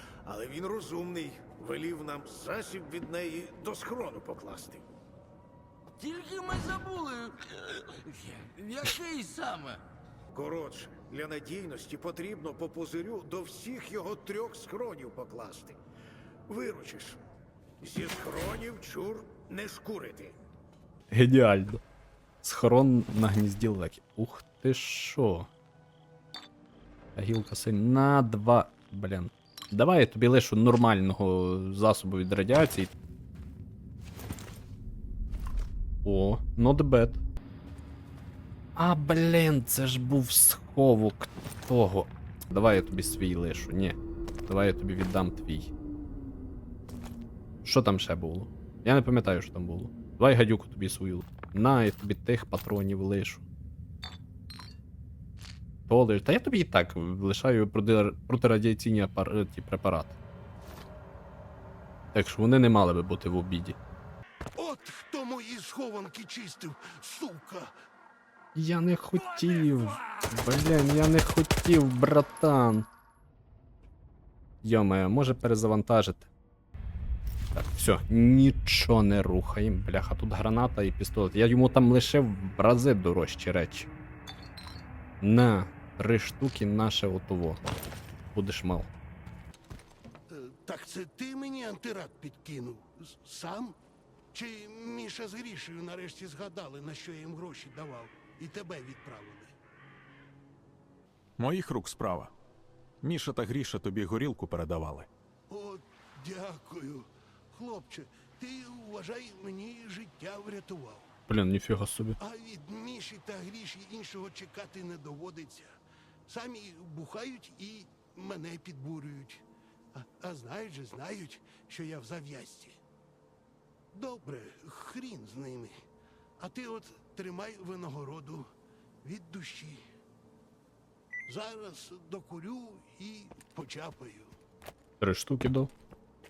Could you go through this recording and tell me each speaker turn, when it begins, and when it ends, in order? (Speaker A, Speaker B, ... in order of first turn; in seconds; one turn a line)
Speaker A: 0.2-4.8
Speaker B: 6.0-9.8
Speaker A: 10.3-15.8
Speaker A: 16.5-17.2
Speaker A: 17.8-20.4
Speaker C: 21.1-21.8
Speaker C: 22.4-25.5
Speaker C: 27.1-32.9
Speaker C: 36.0-37.2
Speaker C: 38.8-45.7
Speaker C: 47.6-53.4
Speaker C: 55.9-60.1
Speaker C: 62.1-63.8
Speaker D: 64.5-67.7
Speaker C: 68.5-72.8
Speaker C: 74.6-76.3
Speaker C: 77.5-83.9
Speaker C: 85.2-87.6
Speaker C: 88.3-88.9
Speaker D: 90.3-93.8
Speaker D: 94.3-99.5
Speaker E: 101.4-102.3
Speaker E: 103.0-105.1
Speaker D: 105.5-111.1
Speaker C: 111.3-112.2
Speaker D: 112.2-115.7
Speaker D: 116.3-122.8
Speaker D: 123.9-125.7
Speaker D: 126.4-128.5
Speaker D: 129.0-129.8
Speaker D: 131.3-134.3
Speaker C: 135.0-135.7